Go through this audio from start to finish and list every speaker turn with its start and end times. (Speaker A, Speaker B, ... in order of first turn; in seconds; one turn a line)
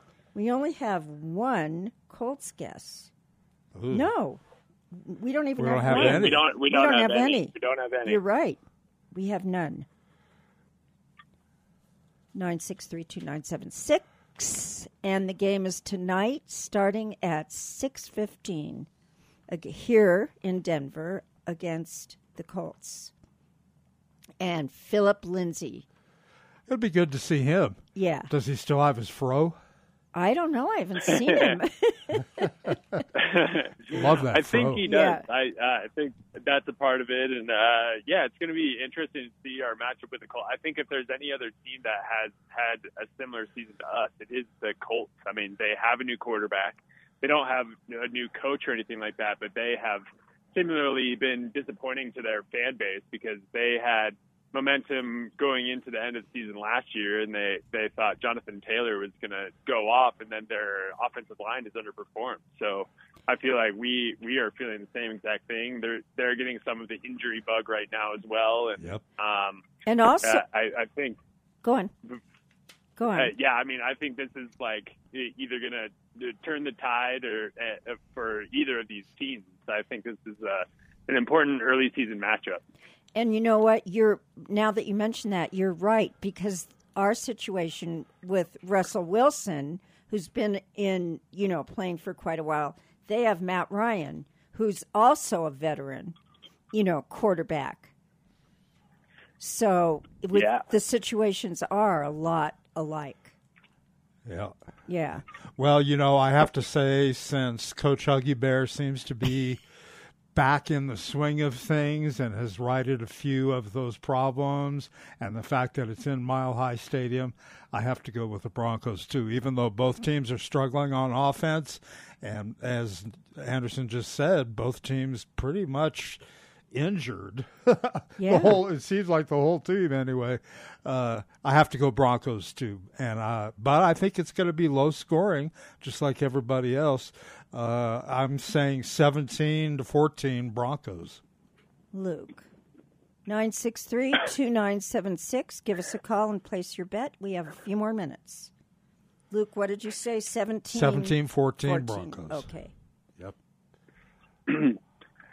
Speaker A: 0.3-3.1
Speaker B: 3.7-4.1
Speaker A: 3.9-4.4
Speaker A: 4.9-7.5
Speaker B: 5.5-6.4
Speaker C: 5.9-8.2
Speaker A: 8.0-8.6
Speaker A: 9.1-9.8
Speaker A: 12.3-18.9
Speaker A: 19.5-23.1
Speaker A: 24.4-25.8
Speaker B: 26.7-29.6
Speaker A: 27.9-28.3
Speaker A: 30.1-33.0
Speaker C: 31.1-31.6
Speaker C: 33.1-69.7
Speaker B: 33.9-34.8
Speaker A: 34.8-35.2
Speaker A: 69.8-70.4
Speaker C: 70.2-71.2
Speaker A: 71.6-71.9
Speaker A: 73.0-73.3
Speaker C: 73.1-82.6
Speaker A: 83.1-96.2
Speaker A: 96.7-97.9
Speaker A: 99.4-103.3
Speaker C: 100.3-100.7
Speaker B: 104.2-104.5
Speaker A: 104.9-105.2
Speaker B: 105.6-109.6
Speaker B: 110.3-141.2
Speaker A: 128.2-128.6
Speaker A: 141.9-142.5
Speaker A: 143.2-148.5
Speaker A: 149.3-152.7
Speaker B: 150.7-152.5
Speaker C: 154.5-154.8